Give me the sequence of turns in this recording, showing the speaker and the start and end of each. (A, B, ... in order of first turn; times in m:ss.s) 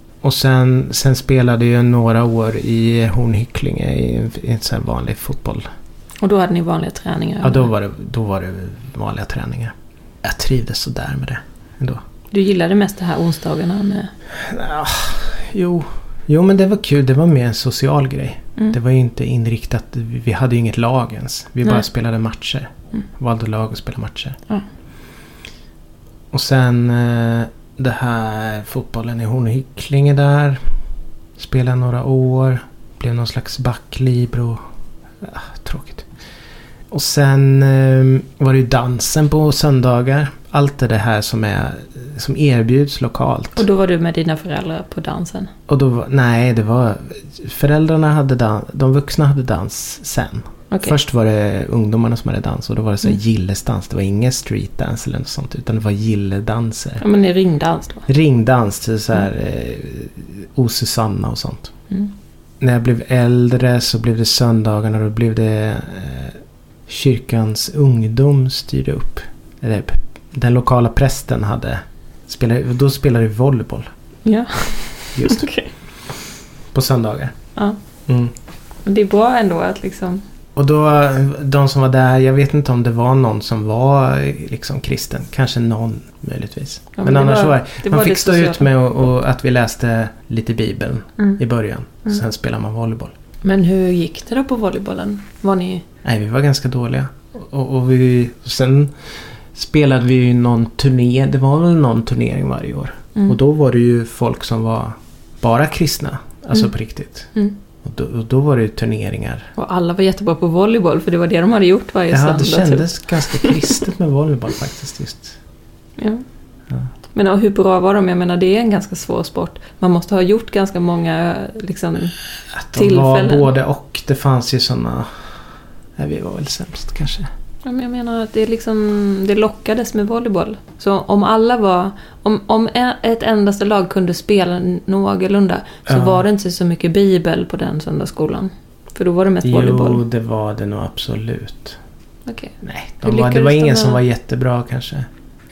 0:00.2-0:05.6 A
0:06.2-0:07.7 B
0:07.4-0:12.0 A
0:12.3-0:14.1 B
0:14.3-0:24.4 A
0:26.3-0:30.6 A
0:31.4-0:34.6 A
0:35.2-0:36.1 A
0:36.9-0:43.6 A
0:43.5-0:45.5 B
0:45.7-0:57.0 A
0:50.7-0:51.0 B
0:57.0-0:58.1 B
0:58.1-1:01.7 A
1:02.6-1:13.9 A
1:14.2-1:15.7 B
1:15.1-1:15.5 A
1:16.7-1:17.3 A
1:18.1-1:18.3 A
1:18.8-1:20.2 B
1:20.6-1:33.1 A
1:27.0-1:28.7 B
1:33.4-1:35.8 B
1:36.0-1:47.3 A
1:47.8-1:49.5 A
1:49.6-1:53.8 B
1:52.1-1:55.4 A
1:56.0-1:56.2 B
1:57.1-2:02.2 B
2:02.5-2:05.3 A
2:02.7-2:03.5 B
2:06.0-2:07.3 A
2:07.6-2:20.0 B
2:15.9-2:16.2 A
2:19.4-2:21.8 A
2:22.2-2:24.0 B
2:22.6-2:25.1 A